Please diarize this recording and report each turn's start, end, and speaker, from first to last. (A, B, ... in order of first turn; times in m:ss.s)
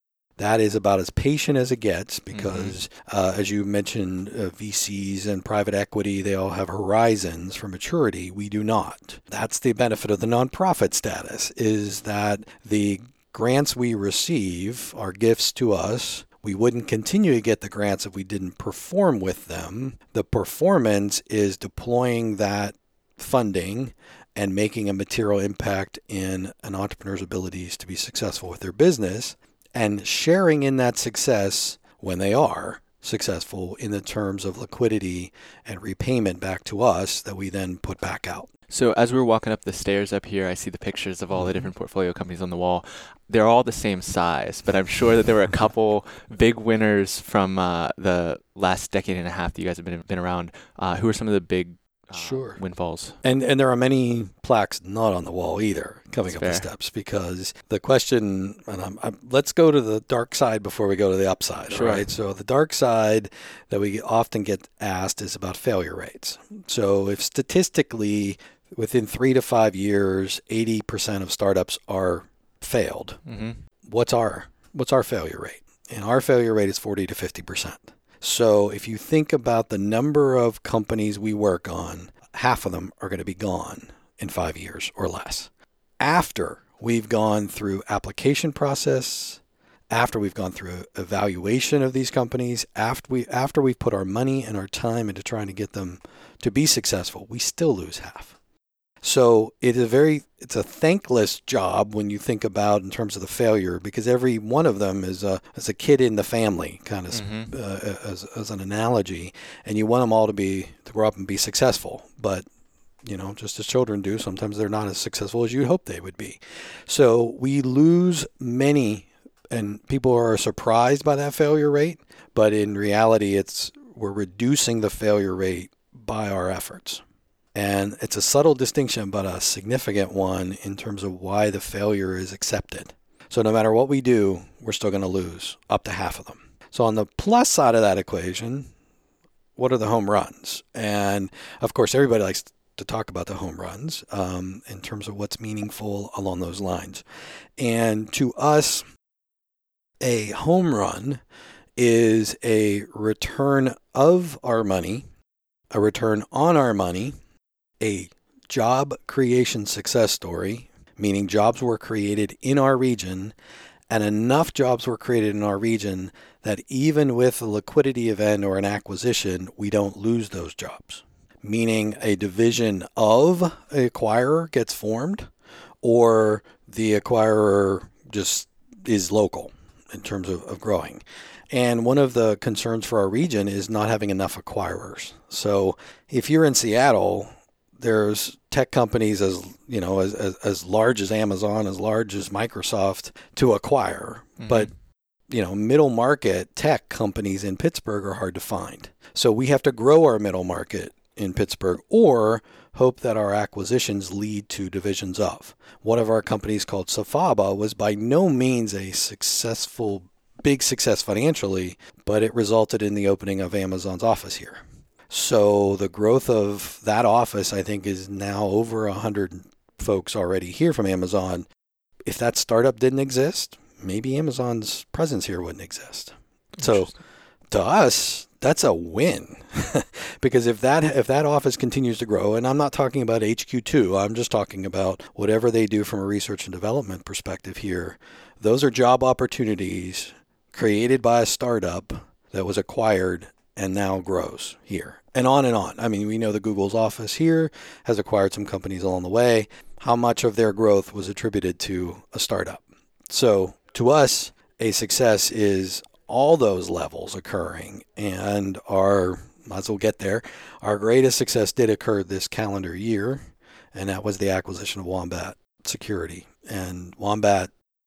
0:00.4-0:38.5 A
0:02.3-0:02.8 B
0:38.7-0:53.2 B
0:52.1-0:52.6 A
0:53.2-1:13.2 A
0:56.3-0:56.7 B
1:01.7-1:02.1 B
1:13.2-1:13.6 B
1:13.9-1:25.5 A
1:26.0-1:38.3 A
1:39.0-1:52.4 A
1:47.1-1:47.5 B
1:53.0-2:07.0 A
2:07.5-2:18.7 A
2:19.6-2:27.0 A
2:27.6-2:28.8 A
2:30.0-2:31.2 A
2:31.8-2:35.0 A
2:35.7-2:37.2 A
2:37.8-2:43.3 A
2:43.9-2:55.3 A
2:55.8-3:14.7 A
3:14.4-3:14.7 B
3:15.3-3:41.5 A
3:42.0-3:46.9 A
3:46.6-3:46.9 B
3:47.5-4:27.5 A